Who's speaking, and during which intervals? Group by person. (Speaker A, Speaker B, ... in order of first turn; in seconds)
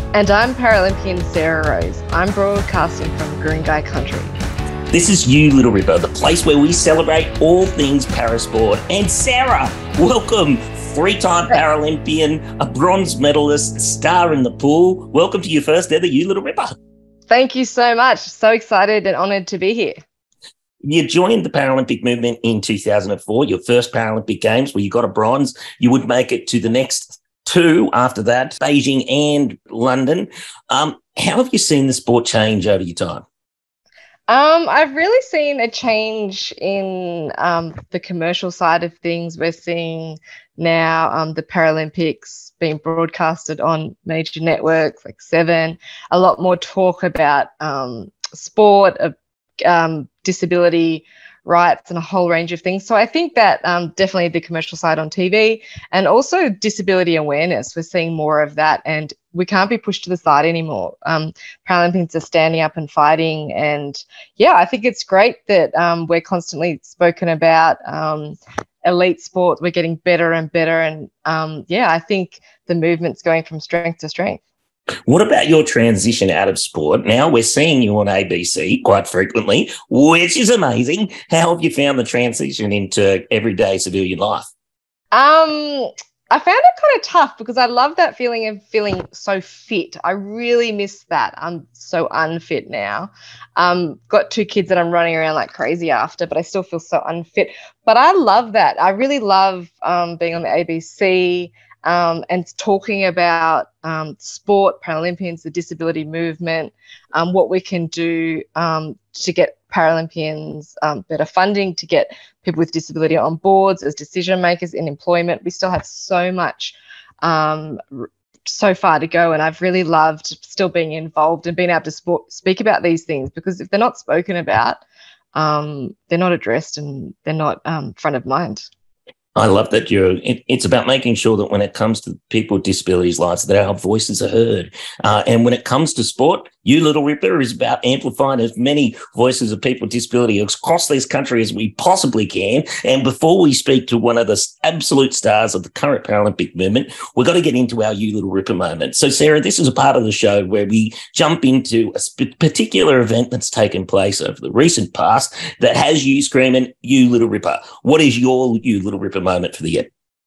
Speaker A: 0.1-4.3, 17.3-19.9, 34.3-74.4, 85.1-124.8, 125.3-128.7
Speaker B: 4.9-16.7, 20.8-33.2, 75.1-84.5, 129.3-159.9